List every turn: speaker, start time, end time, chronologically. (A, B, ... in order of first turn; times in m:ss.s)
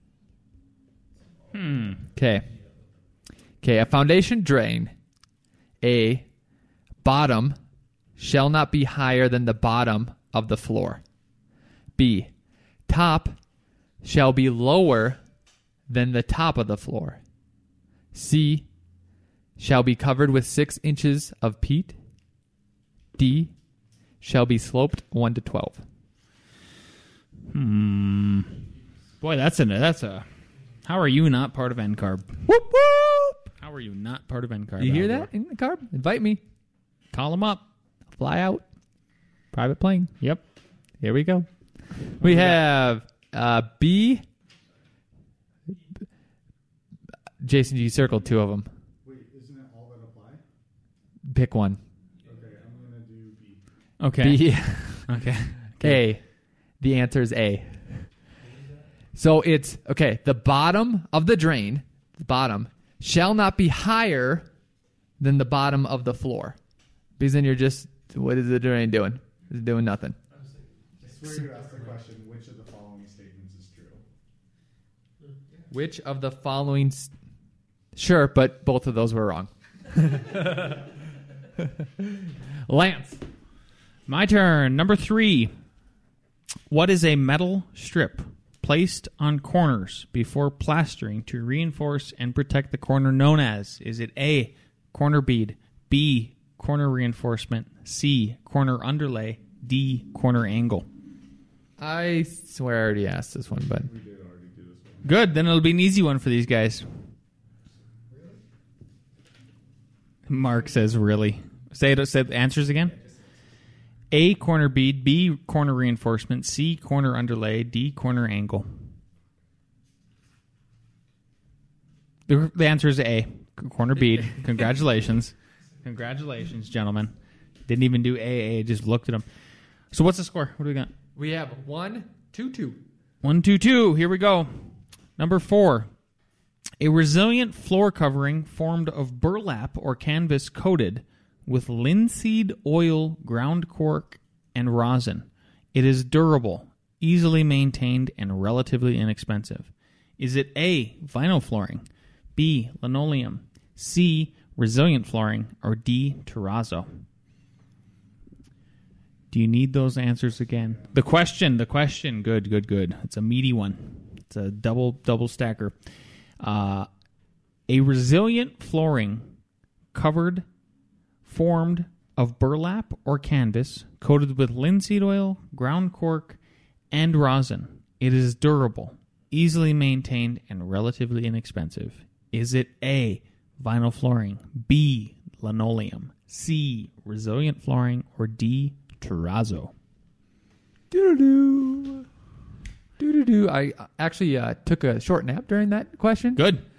0:01.5-0:02.0 A
0:02.1-0:02.5 B
0:03.6-0:04.9 B
0:05.8-0:06.3 B
0:07.0-0:07.6 B
0:08.2-0:11.0 B
0:12.0-0:12.3 B
0:12.9-0:13.4 B
0:14.0-0:15.2 B
0:15.9-0:17.2 B
0:18.1-0:18.7 B
0:19.6-0:22.0 B
0:23.2-0:23.5 B
0:24.2-0:25.8 B
0:27.5-0:28.7 A
0:29.2-0:32.4 A
0:32.4-0:33.5 B
0:33.6-0:35.3 A
0:34.8-0:36.4 B
0:37.1-0:37.6 A
0:38.1-0:38.7 B
0:39.5-0:40.1 B
0:40.2-0:40.4 A
0:41.0-0:41.5 B
0:42.0-0:44.2 B
0:42.2-0:42.6 A
0:47.4-0:48.7 B
0:49.0-0:50.4 C
0:51.3-0:51.8 B
0:52.2-0:53.6 C
0:54.0-0:56.0 A
0:54.2-0:58.2 B
0:59.2-1:04.5 B
1:05.2-1:06.6 B
1:07.2-1:10.2 B
1:11.0-1:14.0 C
1:15.7-1:17.1 B
1:18.0-1:20.9 B
1:21.6-1:23.2 B
1:24.1-1:25.5 A
1:26.7-1:40.9 A
1:41.8-1:43.9 B
1:43.7-1:45.1 C
1:45.0-1:46.9 A
1:48.1-1:48.4 C
1:50.3-1:53.0 A
1:54.1-1:58.9 A
2:02.3-2:07.1 A
2:07.7-2:09.3 A
2:09.9-2:10.9 A
2:11.2-2:12.8 B
2:13.2-2:15.9 A
2:16.8-2:37.0 A
2:39.3-2:45.8 A
2:46.4-2:46.9 A
2:47.7-2:49.4 A
2:49.9-2:50.5 A
2:51.2-2:56.4 A
2:56.9-3:09.7 A
3:10.9-3:12.1 B
3:13.0-3:16.4 B
3:16.4-3:16.6 A